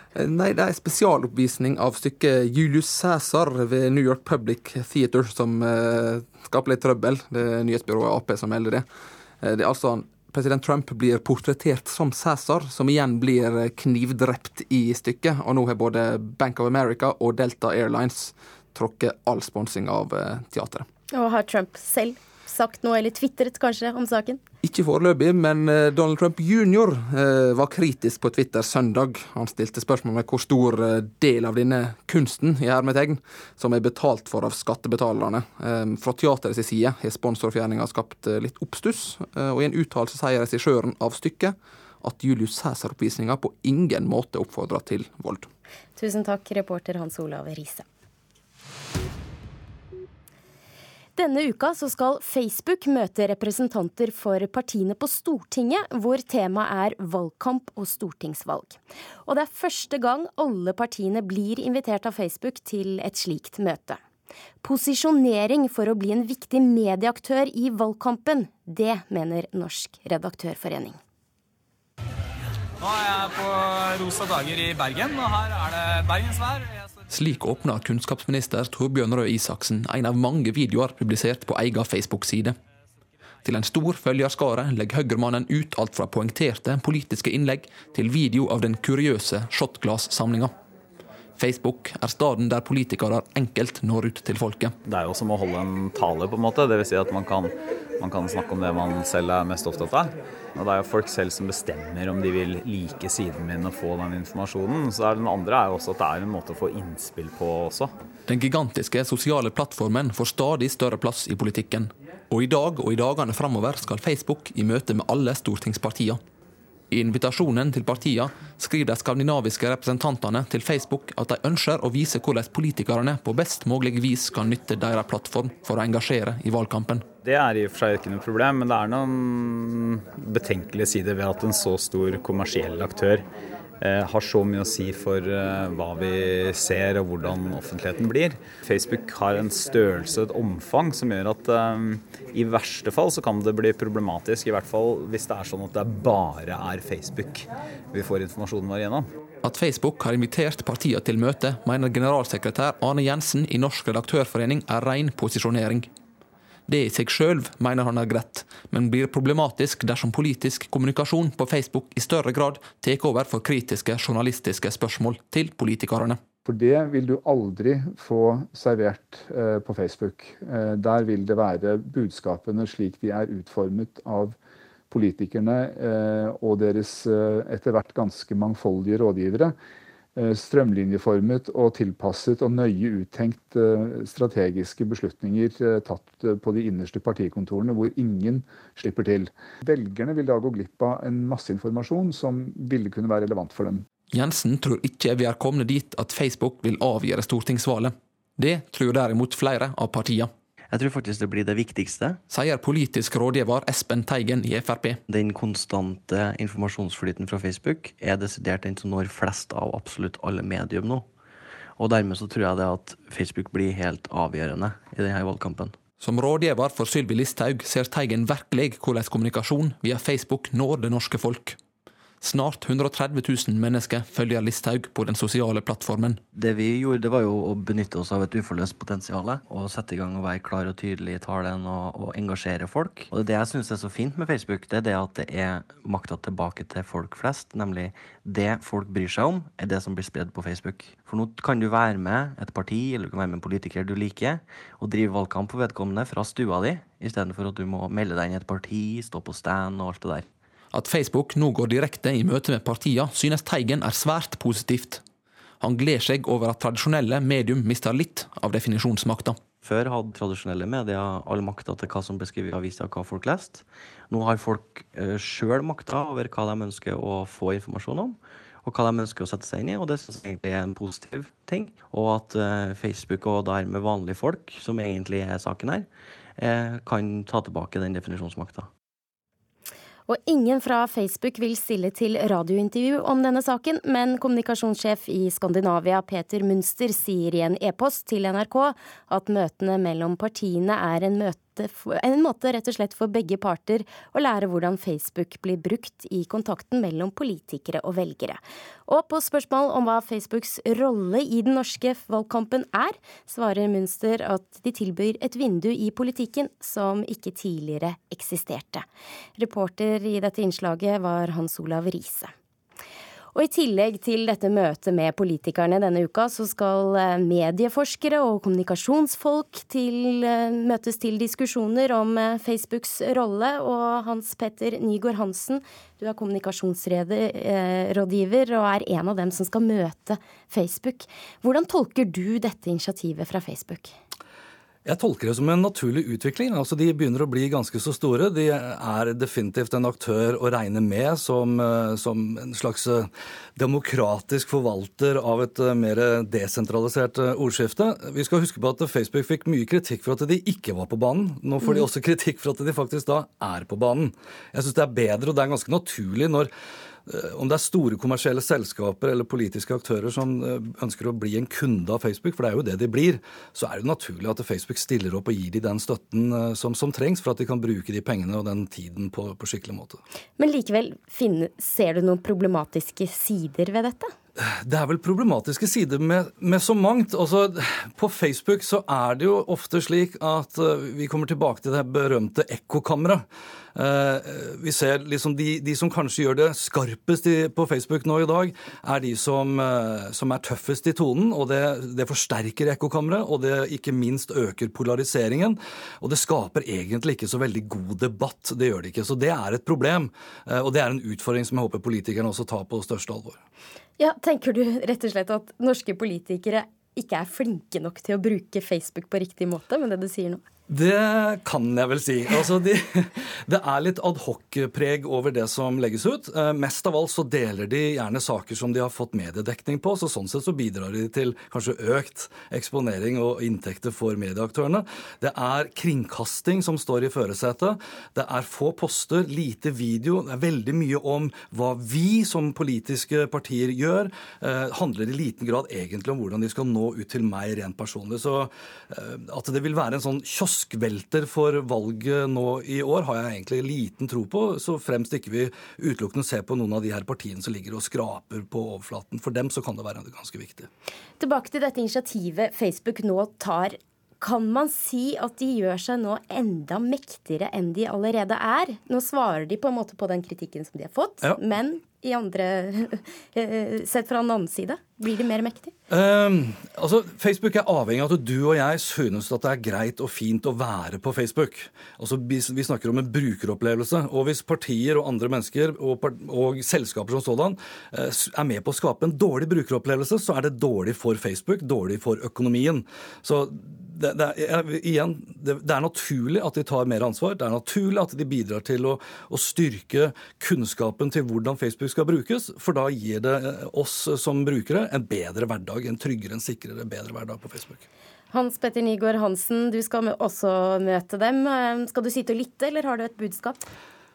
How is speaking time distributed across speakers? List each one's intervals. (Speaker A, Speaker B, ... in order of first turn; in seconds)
Speaker A: 0.1-8.8, 9.4-20.9, 24.6-45.5
Speaker B: 21.1-24.4, 46.0-47.9, 51.1-64.0, 64.6-71.0, 280.1-308.9, 309.4-312.3, 313.3-333.9, 370.4-374.1, 404.0-410.4, 451.2-465.7, 498.3-503.6
Speaker C: 72.8-76.6, 94.8-107.9, 127.2-133.2, 133.8-149.1
Speaker D: 77.1-82.6, 83.4-90.5, 91.4-94.8, 108.3-116.2, 116.9-127.0, 149.4-155.9, 156.7-166.2, 194.1-200.3, 202.3-205.0, 216.0-221.6, 222.2-226.2, 250.7-255.0, 255.6-259.4
Speaker E: 166.4-174.3, 174.9-179.5, 180.2-193.8
Speaker F: 200.7-202.2, 205.1-211.1, 211.8-215.8, 226.3-250.3, 259.6-278.7
Speaker G: 334.8-356.5, 357.1-370.0, 374.4-403.4, 410.7-450.7, 465.9-497.8